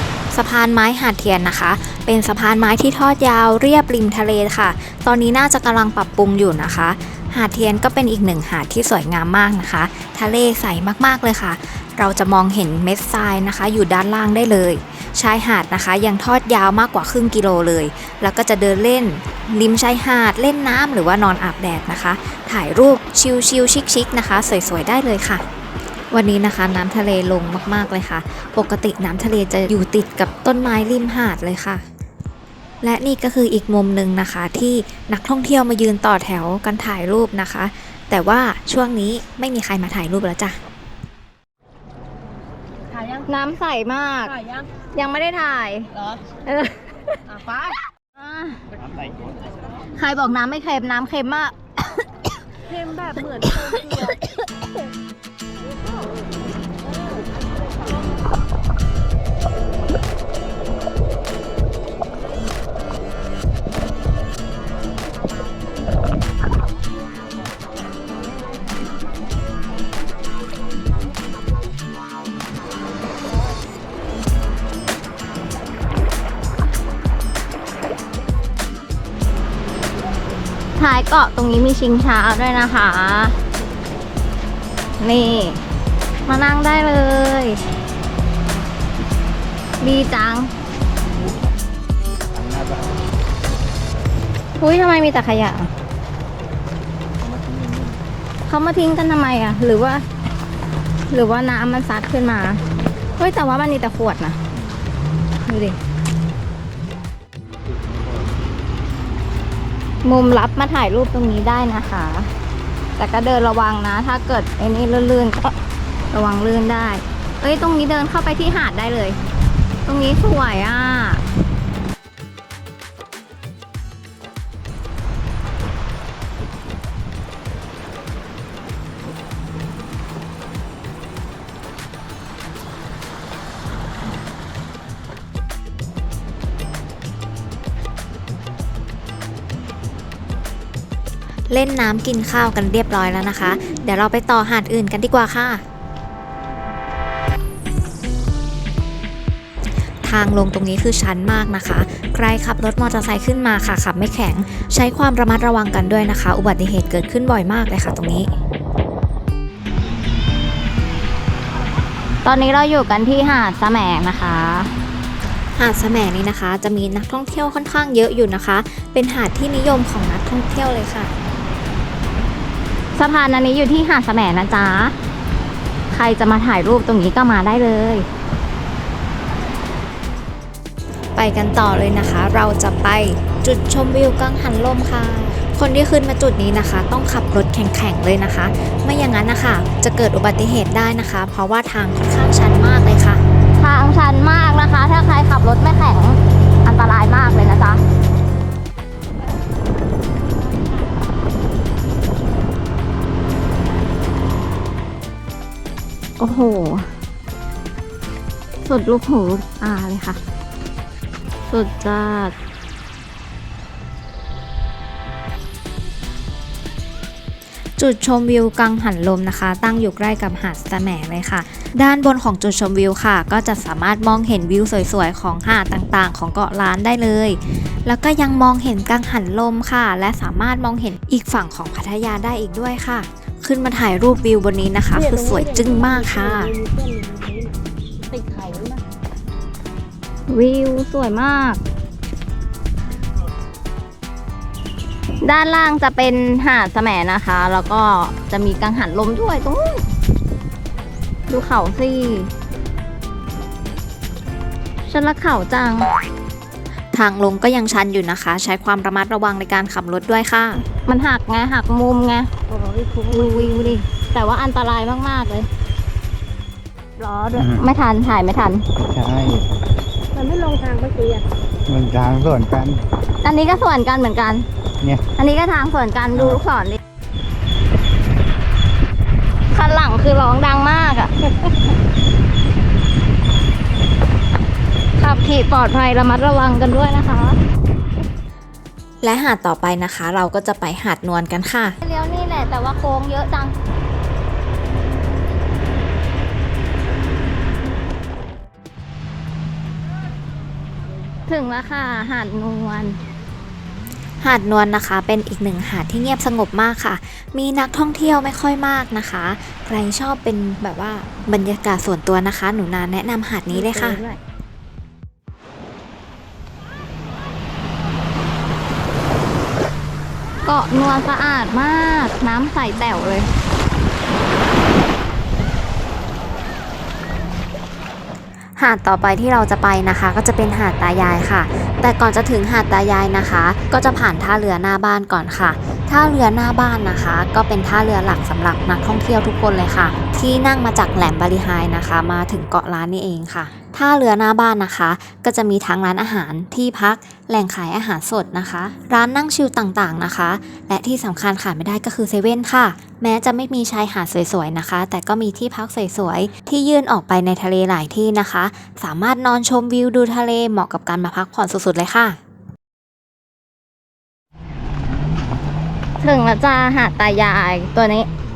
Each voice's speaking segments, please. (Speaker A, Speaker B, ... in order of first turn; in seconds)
Speaker A: 0.3-25.4, 26.1-31.8, 32.8-40.6, 141.5-145.6, 150.0-158.3, 165.5-171.1, 181.2-193.2, 217.8-236.5, 256.9-260.6, 289.0-291.8, 304.2-314.0, 328.6-362.2
Speaker B: 43.2-44.4, 44.9-45.9, 46.5-47.1, 48.1-48.6, 49.9-51.5, 53.5-54.1, 80.8-83.4, 85.0-85.6, 86.2-87.6, 89.8-90.5, 94.6-95.7, 98.5-100.0, 101.1-102.6, 103.2-104.4, 105.5-105.8, 110.0-112.3, 113.0-115.6, 116.1-119.2, 119.8-121.2, 162.2-164.7, 173.0-174.9, 175.9-178.1, 193.6-197.8, 206.2-206.9, 208.6-210.2, 211.5-212.3, 240.3-241.6, 245.2-249.9, 251.3-252.3, 254.8-255.9, 260.8-262.3, 263.1-265.5, 267.0-268.6, 273.2-274.4, 275.1-276.8, 279.5-281.1, 285.0-287.4, 291.8-293.5, 301.3-303.0, 313.5-314.2, 320.4-323.3, 366.0-368.1
Speaker C: 52.8-54.1, 234.9-237.5, 238.1-238.8, 262.5-263.6, 270.1-271.3
Speaker D: 92.4-92.8, 97.2-98.0, 268.8-269.5, 271.7-272.8